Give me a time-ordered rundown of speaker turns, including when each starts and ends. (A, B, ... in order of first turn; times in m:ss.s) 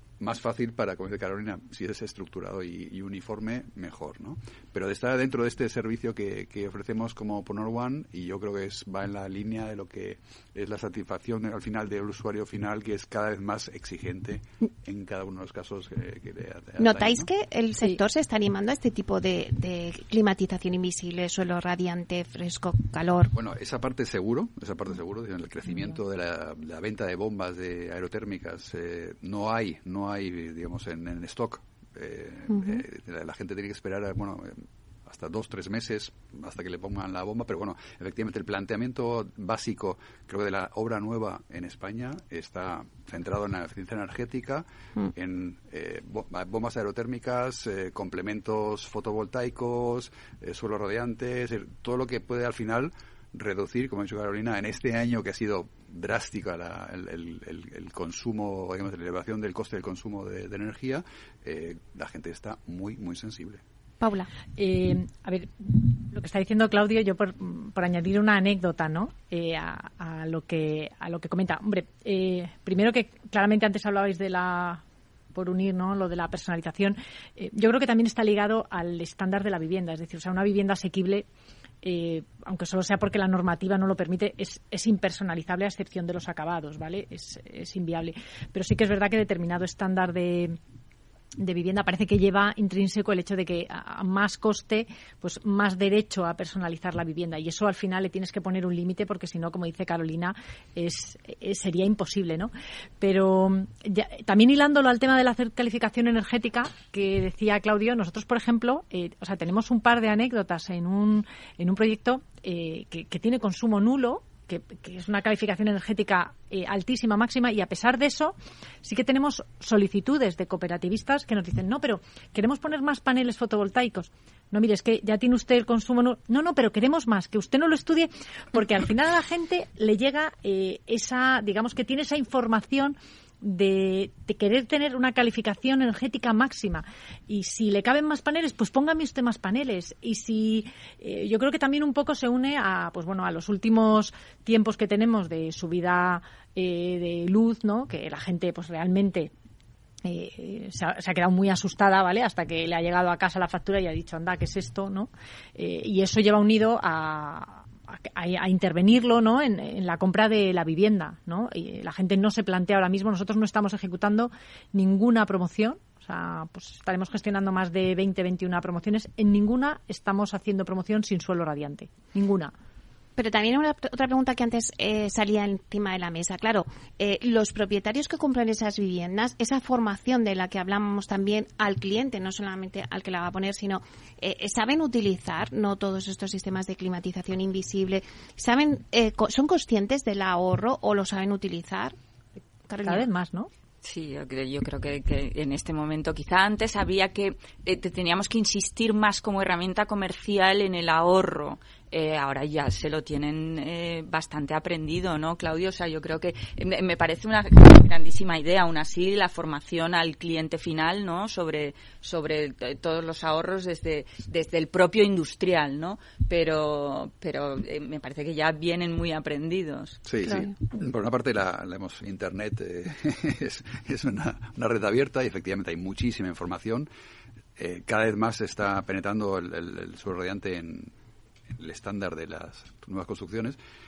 0:00.2-0:17.3 A
0:16.8-0:23.3 B
0:23.3-1:03.6 A
0:32.5-0:32.8 B
1:04.0-1:04.3 B
1:04.6-1:14.8 C
1:15.3-1:21.2 C
1:21.8-1:30.6 C
1:31.4-2:29.3 C
2:30.0-2:52.5 C
2:53.2-3:11.9 B
3:12.7-3:13.0 B
3:12.8-3:13.5 C
3:13.8-3:40.0 D
3:40.0-3:46.9 A
3:40.2-3:40.5 B
3:47.6-3:50.9 A
3:51.6-3:53.6 A